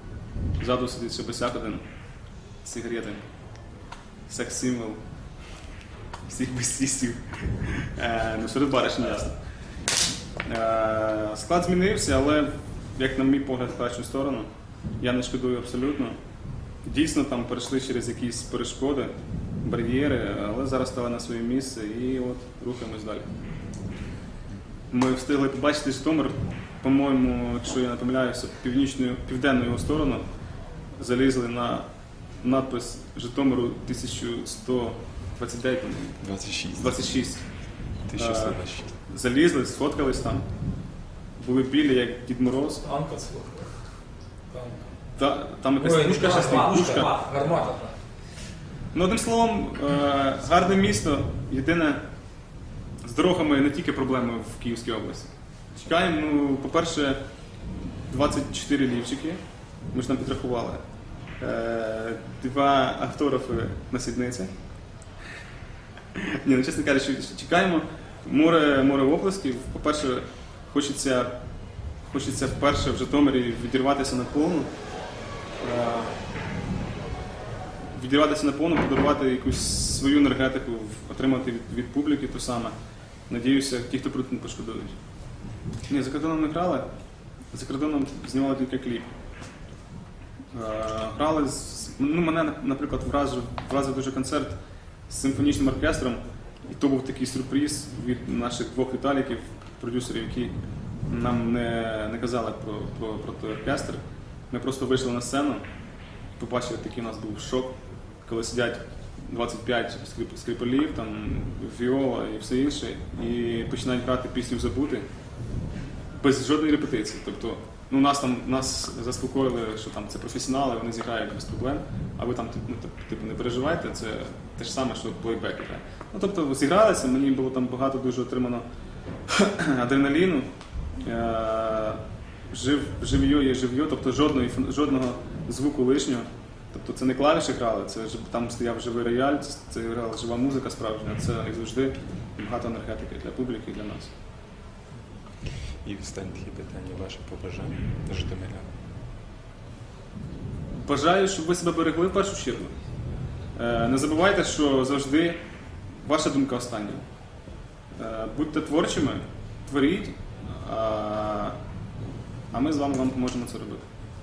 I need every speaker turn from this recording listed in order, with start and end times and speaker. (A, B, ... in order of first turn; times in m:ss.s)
0:00.6-0:01.8 A
0:02.6-0:03.2 A
0:04.3-0:05.0 A
0:06.3-0:09.4 A
0:10.4-0:14.5 A
0:15.0-0:16.2 A
0:16.8-0:23.3 A
0:24.9-0:30.2 A
0:31.0-0:31.9 A
0:32.4-0:37.5 A
0:36.2-0:37.0 B
0:38.1-0:39.0 B
0:38.1-0:40.5 A
0:41.4-0:42.9 A
0:42.8-0:43.8 C
0:44.5-0:44.8 C
0:45.2-0:47.1 A
0:45.8-0:48.0 C
0:48.9-0:52.0 A
0:53.0-0:57.2 A
0:58.1-0:59.4 A
0:59.9-1:00.8 A
1:01.4-1:04.5 A
1:06.2-1:11.3 A
1:12.0-1:14.7 A
1:15.6-1:16.2 A
1:18.0-1:22.7 A
1:23.3-1:25.0 A
1:25.9-1:26.8 A
1:27.5-1:29.1 A
1:30.5-1:34.6 A
1:35.1-1:40.6 A
1:41.1-1:45.6 A
1:46.4-1:55.0 A
1:56.2-2:08.6 A
2:09.3-2:10.5 A
2:11.0-2:24.1 A
2:25.8-2:28.7 B
2:30.8-2:32.7 A
2:33.6-2:35.4 A
2:36.0-2:37.0 A
2:38.0-2:41.6 A
2:42.5-2:43.9 A